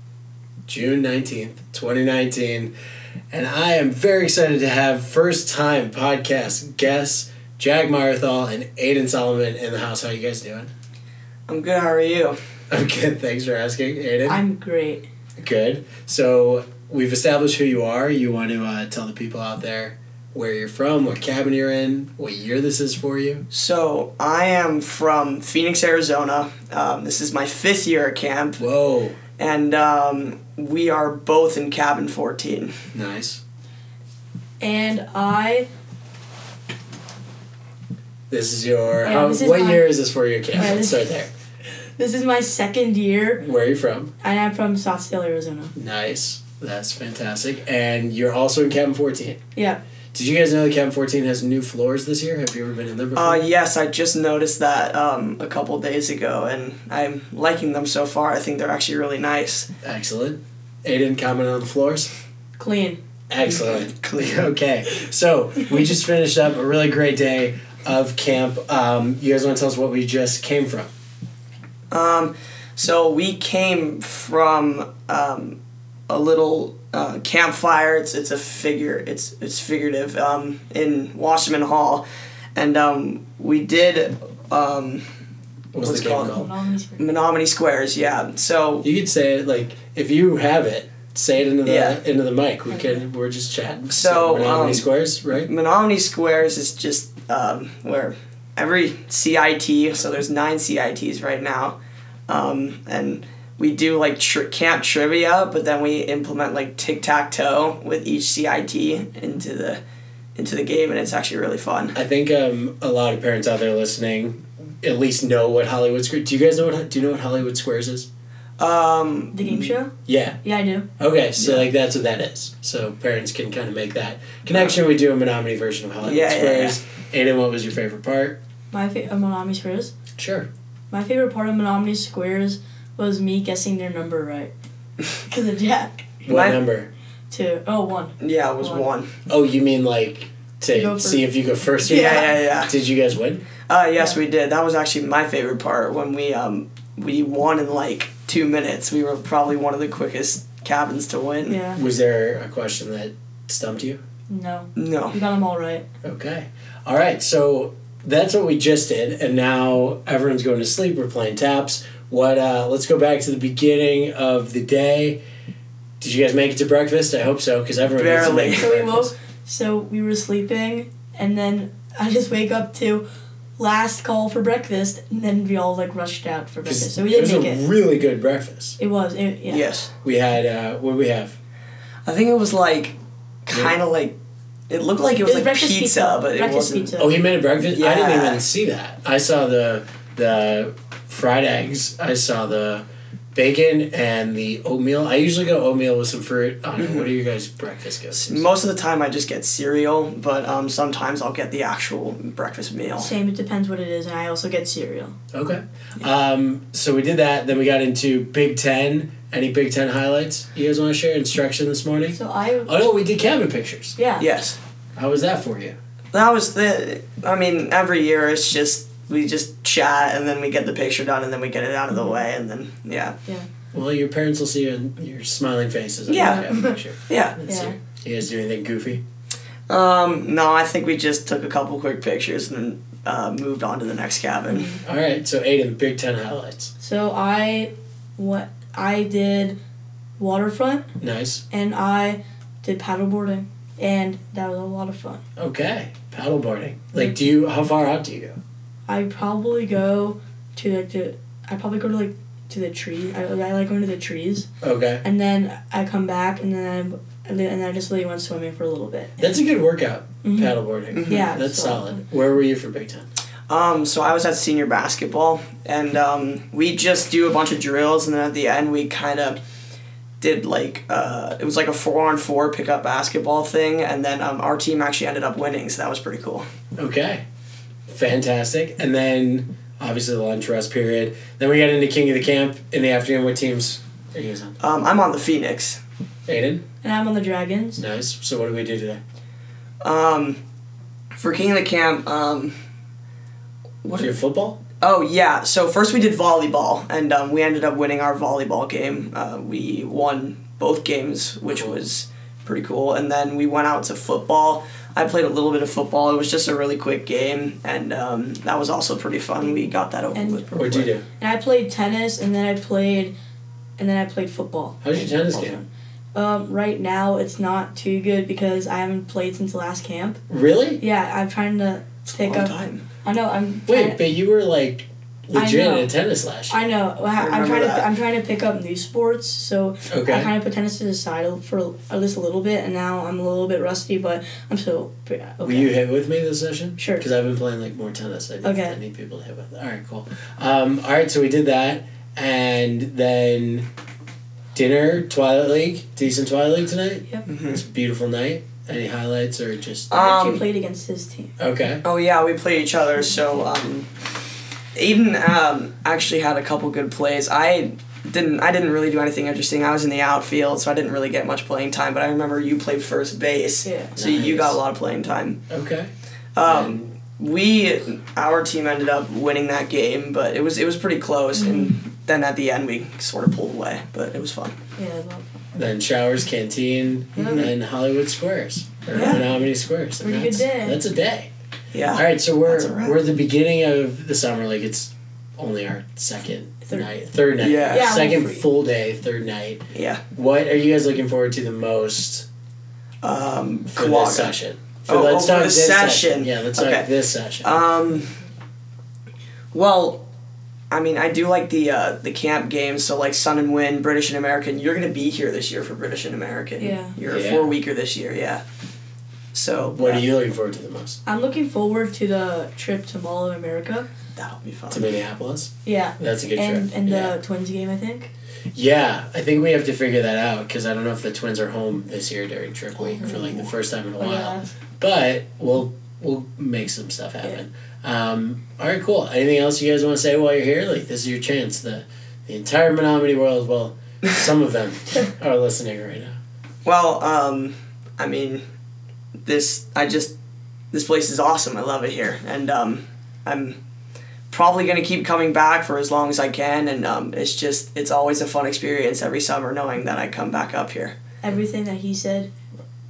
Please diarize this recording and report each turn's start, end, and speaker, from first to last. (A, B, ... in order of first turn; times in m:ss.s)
0:00.7-0:02.7 A
0:03.3-0:10.7 A
0:11.5-0:12.4 B
0:12.7-0:14.4 A
0:14.3-0:15.0 C
0:15.4-0:23.5 A
0:23.5-0:28.6 B
0:28.6-0:29.2 A
0:29.4-0:32.8 B
0:32.9-0:33.4 A
0:34.6-0:35.7 C
0:38.3-0:41.3 A
0:39.0-0:39.9 C
0:40.6-0:41.1 C
0:42.0-0:43.4 C
0:43.4-0:44.1 A
0:44.2-0:45.7 C
0:45.8-0:49.4 A
0:49.6-0:49.8 C
0:50.1-0:53.4 A
0:53.1-0:59.7 B
0:59.8-1:02.1 A
1:02.6-1:03.0 C
1:03.3-1:10.9 A
1:03.4-1:04.4 B
1:11.9-1:15.6 B
1:16.1-1:25.0 B
1:25.7-1:26.5 A
1:25.8-1:26.5 B
1:26.1-1:27.1 C
1:27.0-1:28.9 B
1:28.8-1:35.5 A
1:31.6-1:32.0 B
1:33.9-1:34.9 B
1:35.5-1:41.8 B
1:42.3-1:49.8 B
1:50.4-1:52.0 B
1:52.0-1:58.1 A
1:58.6-1:59.7 B
1:59.3-2:00.9 C
2:00.1-2:00.4 A
2:01.0-2:08.4 A
2:01.4-2:01.7 B
2:04.5-2:04.8 B
2:06.0-2:06.8 B
2:08.7-2:09.9 C
2:10.2-2:10.5 A
2:10.9-2:14.5 C
2:15.1-2:16.0 C
2:16.2-2:16.9 A
2:16.3-2:16.6 B
2:17.3-2:18.9 C
2:18.2-2:19.1 B
2:19.3-2:23.5 A
2:20.7-2:21.2 C
2:21.8-2:22.3 C
2:21.9-2:22.7 B
2:23.7-2:31.6 B
2:31.5-2:31.8 C
2:31.7-2:34.0 A
2:34.3-2:35.9 C
2:34.8-2:35.2 B
2:36.0-2:45.2 A
2:46.0-2:49.1 A
2:47.9-2:48.7 B
2:48.5-2:53.0 C
2:53.6-2:57.6 C
2:56.6-2:58.8 A
2:58.8-2:59.7 C
2:59.5-2:59.9 B
3:00.0-3:01.4 A
3:02.1-3:04.2 B
3:04.7-3:06.9 B
3:05.2-3:07.2 C
3:07.0-3:18.5 A
3:07.6-3:08.4 B
3:16.8-3:17.1 B
3:18.1-3:23.1 B
3:23.0-3:25.2 C
3:25.3-3:34.0 A
3:32.1-3:32.8 C
3:34.0-3:34.3 C
3:34.2-3:34.6 B
3:35.0-3:35.8 A
3:36.1-3:43.2 B
3:43.7-3:49.0 A
3:46.1-3:46.5 B
3:46.2-3:46.8 C
3:47.1-3:47.7 B
3:47.5-3:47.8 C
3:49.7-3:54.7 B
3:54.5-3:54.8 C
3:54.8-3:56.7 A
3:56.8-3:59.6 C
4:00.2-4:00.9 C
4:01.0-4:01.4 A
4:01.5-4:05.2 C
4:05.4-4:08.4 A
4:08.9-4:14.5 C
4:14.6-4:15.0 A
4:15.0-4:19.3 C
4:19.2-4:23.1 A
4:20.2-4:22.0 C
4:20.9-4:21.3 B
4:23.5-4:29.4 B
4:30.2-4:36.5 B
4:36.8-4:37.2 A
4:37.9-4:44.6 A
4:44.6-4:45.8 B
4:46.3-4:46.6 A
4:46.8-4:47.8 C
4:47.8-4:49.0 A
4:49.8-4:50.4 B
4:51.2-4:52.6 B
4:53.8-4:54.1 B
4:54.0-4:54.6 A
4:54.8-5:10.9 B
5:10.1-5:10.5 C
5:10.6-5:11.0 A
5:11.2-5:13.2 C
5:13.8-5:20.2 C
5:14.8-5:15.6 A
5:20.3-5:20.8 A
5:20.8-5:24.0 C
5:22.1-5:22.8 B
5:23.7-5:26.6 A
5:25.3-5:25.9 C
5:26.5-5:35.8 C
5:27.2-5:27.9 B
5:29.9-5:30.3 A
5:35.4-5:43.7 A
5:36.8-5:37.1 C
5:38.4-5:38.8 C
5:44.5-5:49.9 A
5:47.3-5:47.6 B
5:49.9-5:50.4 B
5:49.9-5:51.3 C
5:51.4-5:51.8 A
5:51.8-5:53.9 B
5:54.8-6:05.4 B
6:03.6-6:04.0 C
6:04.0-6:04.6 A
6:05.5-6:05.9 A
6:06.4-6:14.6 B
6:06.4-6:06.9 A
6:11.3-6:11.8 C
6:14.8-6:15.3 C
6:15.5-6:21.3 A
6:17.2-6:17.5 B
6:17.2-6:17.5 C
6:18.9-6:19.2 B
6:20.0-6:20.8 C
6:21.7-6:23.0 B
6:21.9-6:32.3 A
6:27.4-6:27.9 B
6:27.7-6:28.4 C
6:29.7-6:30.0 B
6:33.0-6:34.4 B
6:33.8-6:37.6 A
6:34.9-6:36.9 B
6:37.4-6:38.1 B
6:39.5-6:40.0 B
6:40.7-6:48.4 B
6:46.6-6:47.0 C
6:47.1-6:47.5 A
6:49.3-6:50.0 B
6:49.7-6:51.0 A
6:51.1-6:53.9 C
6:54.2-6:54.9 B
6:54.7-6:57.2 A
6:55.6-6:58.1 C
6:58.5-7:16.2 A
7:02.8-7:03.5 B
7:04.0-7:04.5 C
7:16.6-7:18.4 B
7:19.3-7:20.1 B
7:20.7-7:23.6 B
7:24.3-7:31.0 B
7:31.2-7:32.3 C